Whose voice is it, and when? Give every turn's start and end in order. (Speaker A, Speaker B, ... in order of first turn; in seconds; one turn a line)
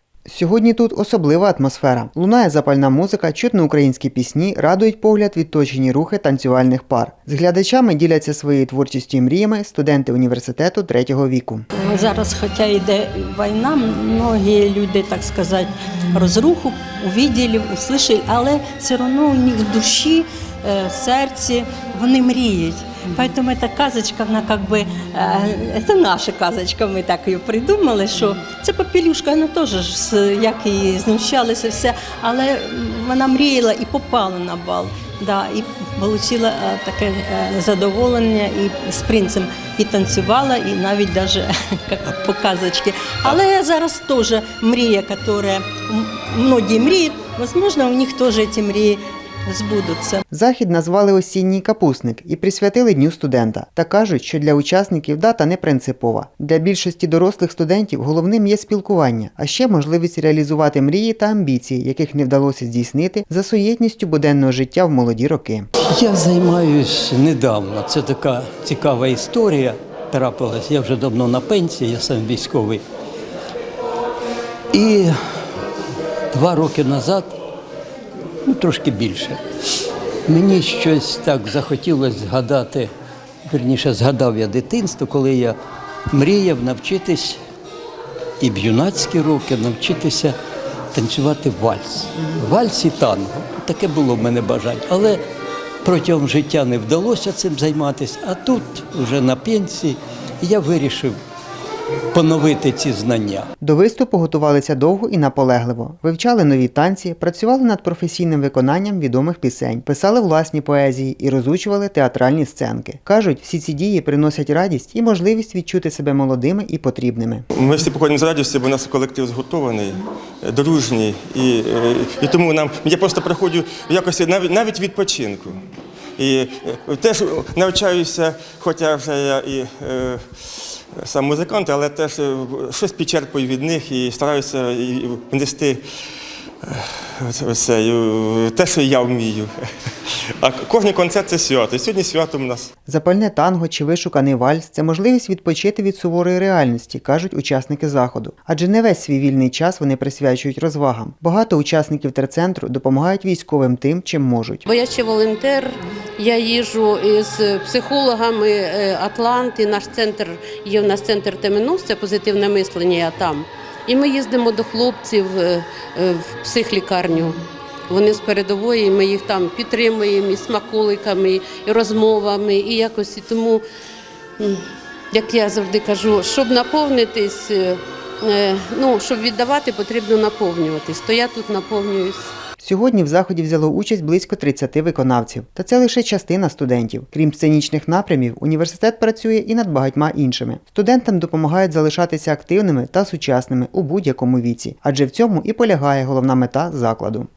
Speaker A: 0.3-11.7
Speaker B: 11.8-50.2
Speaker A: 50.3-65.7
Speaker C: 65.9-72.8
Speaker C: 74.7-75.2
Speaker C: 76.3-77.3
Speaker C: 78.5-79.4
Speaker C: 80.3-82.9
Speaker C: 83.5-85.6
Speaker C: 86.1-87.4
Speaker C: 88.4-90.4
Speaker C: 90.9-95.2
Speaker C: 95.8-101.2
Speaker C: 102.1-103.5
Speaker A: 103.6-117.4
Speaker D: 117.5-125.6
Speaker D: 126.2-135.8
Speaker D: 136.7-139.5
Speaker D: 140.4-142.7
Speaker A: 142.9-154.6
Speaker E: 154.7-167.4
Speaker E: 167.9-173.6
Speaker E: 174.4-182.3
Speaker A: 182.6-197.3